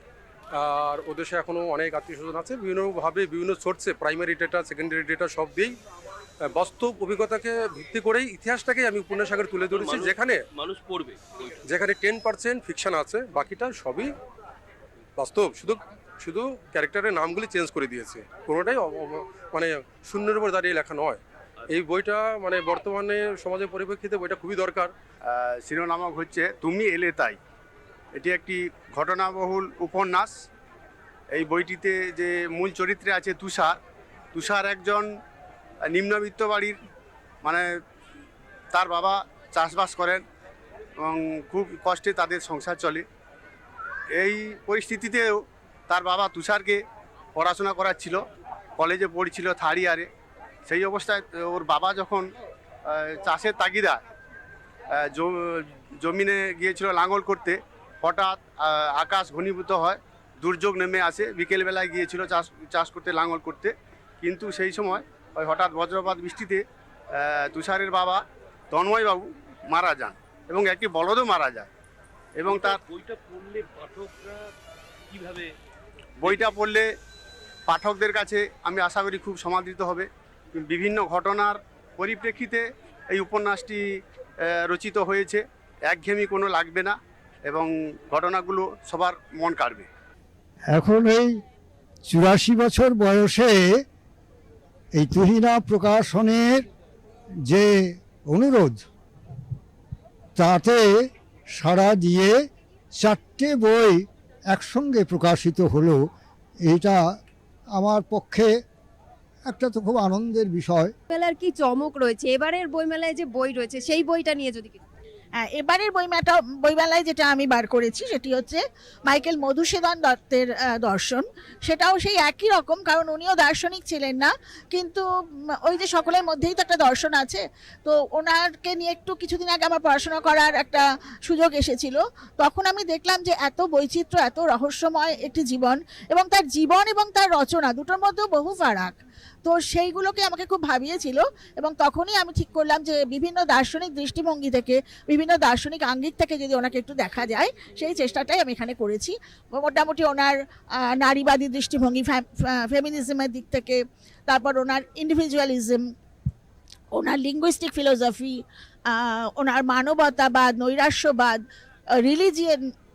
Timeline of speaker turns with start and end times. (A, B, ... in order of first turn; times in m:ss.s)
0:00.5-0:05.8 A
0:06.4-0:10.4 A
0:09.7-0:11.5 B
0:11.6-0:14.1 A
0:15.2-0:24.9 A
0:25.3-0:27.4 C
0:28.2-0:30.3 C
0:31.3-0:33.8 C
0:34.3-0:35.1 C
0:35.9-0:36.8 C
0:38.7-0:40.2 C
0:41.1-0:43.0 C
0:44.2-0:46.8 C
0:47.4-0:48.2 C
0:48.8-0:50.1 C
0:50.7-0:52.2 C
0:53.0-0:54.0 C
0:55.1-0:58.4 C
0:59.0-1:06.6 C
1:07.5-1:08.2 C
1:08.7-1:11.7 C
1:12.4-1:12.7 C
1:12.4-1:14.4 B
1:15.1-1:15.5 B
1:16.2-1:16.6 B
1:16.2-1:16.8 C
1:17.7-1:20.1 C
1:20.6-1:22.6 C
1:23.1-1:23.8 C
1:24.7-1:26.9 C
1:27.5-1:29.9 C
1:30.7-1:31.3 D
1:32.1-1:33.7 D
1:35.0-1:36.6 D
1:38.3-1:38.8 D
1:40.4-1:41.0 D
1:41.6-1:42.4 D
1:43.0-1:46.0 D
1:46.7-1:47.0 D
1:47.8-1:48.5 D
1:49.5-1:50.9 D
1:51.1-1:54.8 E
1:55.4-2:05.0 F
2:05.6-2:30.4 F
2:30.9-2:35.9 F
2:36.9-2:41.4 F
2:42.0-2:42.6 F